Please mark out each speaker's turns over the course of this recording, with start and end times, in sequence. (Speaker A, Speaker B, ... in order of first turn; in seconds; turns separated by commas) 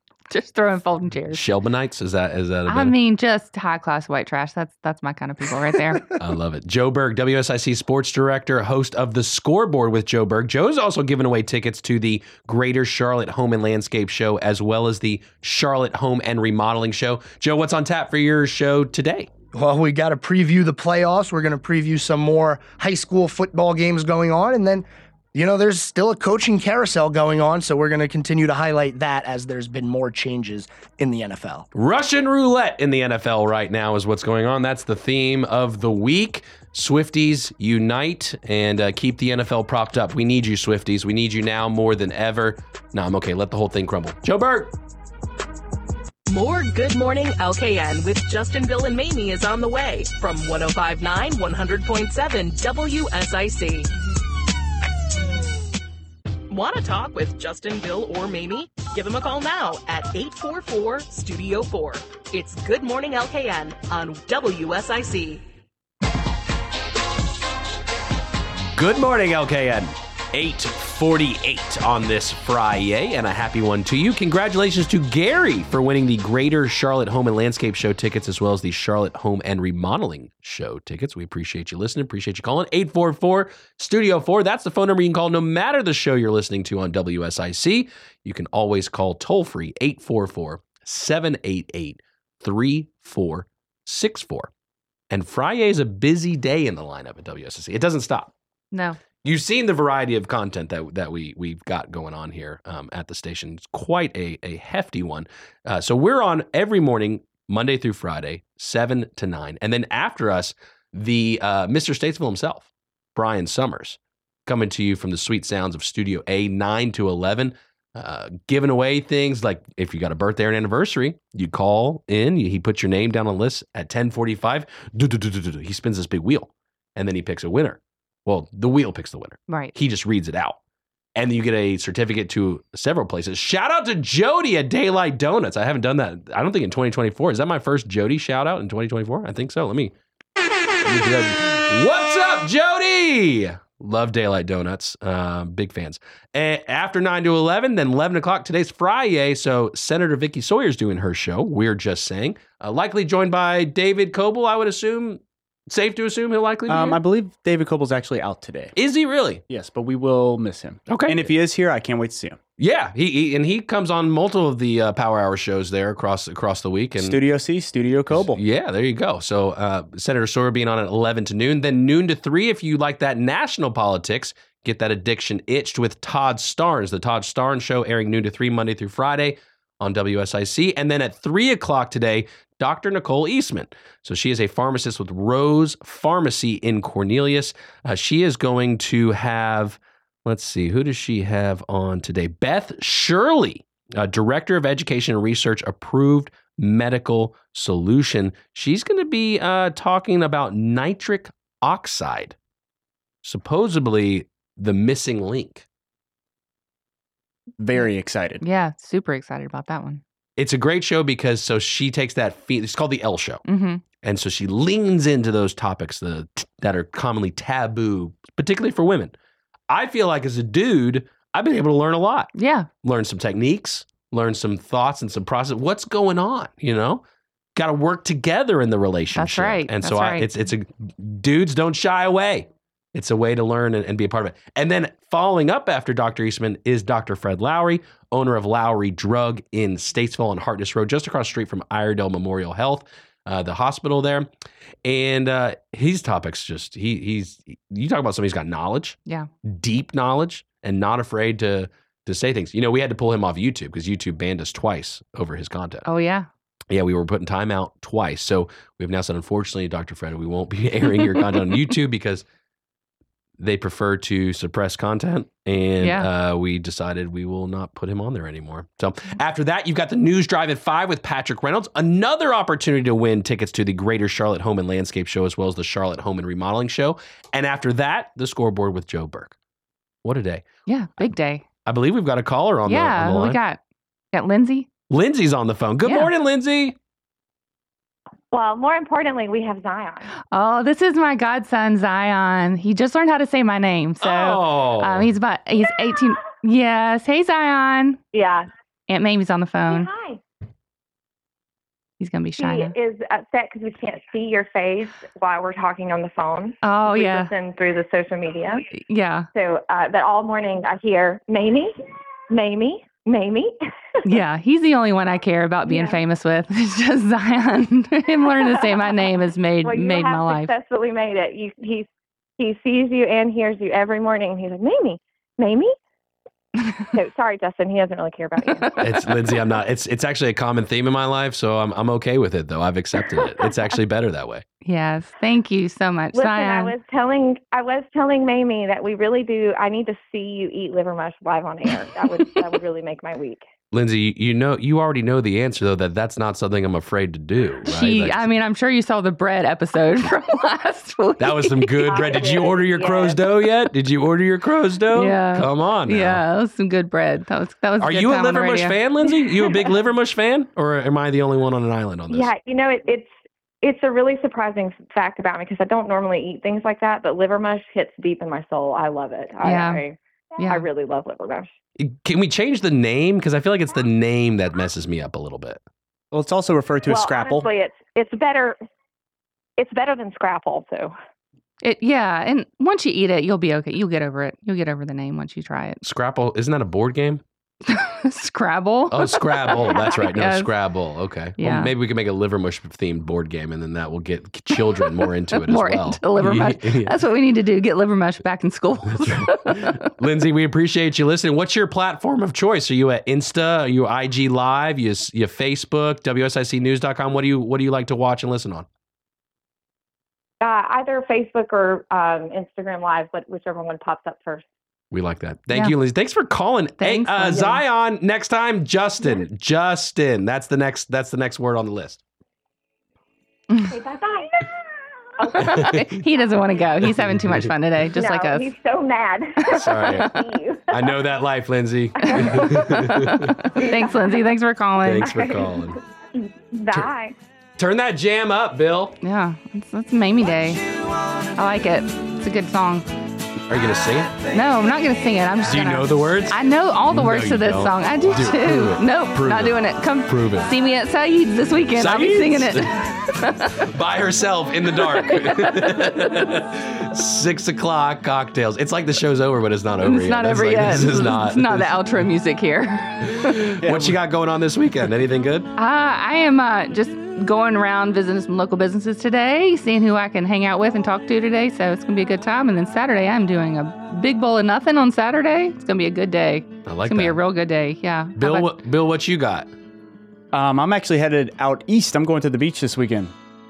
Speaker A: 0.3-1.4, Speaker B: 1.3-3.0, Speaker A: 2.7-6.1, Speaker B: 6.2-19.3, Speaker C: 19.5-31.7, Speaker B: 31.8-44.7, Speaker D: 46.3-53.9, Speaker D: 56.5-65.5, Speaker B: 68.7-94.5, Speaker B: 95.1-98.3, Speaker A: 98.7-99.0, Speaker B: 99.2-130.6, Speaker A: 129.5-129.7, Speaker B: 131.2-139.9, Speaker B: 140.8-157.0, Speaker E: 156.7-158.7, Speaker B: 158.8-159.4, Speaker E: 159.5-162.4, Speaker B: 160.9-161.3, Speaker B: 162.6-167.2, Speaker E: 167.0-168.4, Speaker B: 168.1-202.4, Speaker B: 203.2-205.7, Speaker E: 207.6-208.4, Speaker A: 208.4-210.0, Speaker B: 210.4-213.4, Speaker A: 213.5-213.8, Speaker B: 214.0-219.1, Speaker B: 219.7-222.3, Speaker A: 222.3-222.7, Speaker B: 222.8-227.0, Speaker B: 227.6-244.3, Speaker A: 229.2-230.3, Speaker B: 244.8-255.9, Speaker A: 255.8-256.3, Speaker B: 256.7-262.2, Speaker B: 263.4-279.3, Speaker A: 265.8-266.1, Speaker B: 280.0-280.4, Speaker A: 280.7-281.4, Speaker B: 281.6-283.4, Speaker A: 282.7-283.6, Speaker A: 284.1-284.7, Speaker B: 284.9-286.8, Speaker A: 285.8-286.1, Speaker F: 288.3-290.1, Speaker A: 290.3-298.0, Speaker B: 294.0-295.1, Speaker F: 298.1-298.5, Speaker A: 298.9-299.9, Speaker F: 299.7-300.2, Speaker A: 302.0-302.8, Speaker F: 302.4-308.7, Speaker A: 306.6-307.3, Speaker A: 308.8-309.3, Speaker F: 309.3-311.7, Speaker F: 312.3-313.6, Speaker A: 314.1-320.5, Speaker F: 315.7-316.0, Speaker F: 318.4-318.7, Speaker F: 319.6-321.9, Speaker F: 322.4-325.7, Speaker F: 326.9-329.1, Speaker A: 328.4-328.8, Speaker B: 328.8-334.4, Speaker F: 333.1-333.6, Speaker A: 334.6-336.8, Speaker F: 336.1-343.5, Speaker B: 343.7-348.3, Speaker A: 347.7-352.3, Speaker B: 351.2-356.2, Speaker F: 351.8-353.3, Speaker A: 354.9-358.8, Speaker B: 357.8-362.3, Speaker F: 362.1-363.1, Speaker F: 363.6-371.5, Speaker A: 369.4-369.8, Speaker A: 370.4-370.7, Speaker B: 371.8-375.6, Speaker E: 376.1-377.5, Speaker F: 376.9-378.6, Speaker F: 379.6-380.9, Speaker A: 381.6-385.8, Speaker B: 385.8-387.2, Speaker A: 387.7-390.5, Speaker B: 388.9-396.9, Speaker A: 391.4-391.7, Speaker A: 394.6-399.8, Speaker B: 398.9-408.7, Speaker F: 410.4-414.5, Speaker B: 414.9-422.0, Speaker A: 416.8-417.6, Speaker F: 423.7-424.5, Speaker F: 425.2-425.7, Speaker A: 425.3-428.5, Speaker B: 425.4-425.9, Speaker B: 426.8-427.5, Speaker F: 428.0-431.1, Speaker A: 429.4-430.1, Speaker B: 429.5-430.1, Speaker B: 430.7-433.5, Speaker A: 432.0-435.2, Speaker F: 432.1-432.8, Speaker F: 433.7-434.2, Speaker B: 434.9-435.8, Speaker F: 435.1-437.1, Speaker B: 437.6-439.0, Speaker A: 439.0-440.6, Speaker A: 441.4-442.9, Speaker B: 443.5-444.2, Speaker A: 444.3-453.7, Speaker B: 445.4-446.4, Speaker B: 446.9-450.5, Speaker B: 451.8-452.9, Speaker B: 453.6-461.7, Speaker A: 454.9-456.2, Speaker A: 459.8-463.4, Speaker B: 463.1-465.5, Speaker E: 463.6-464.0, Speaker A: 465.6-478.5, Speaker B: 476.7-477.2, Speaker B: 478.2-479.5, Speaker E: 480.3-483.1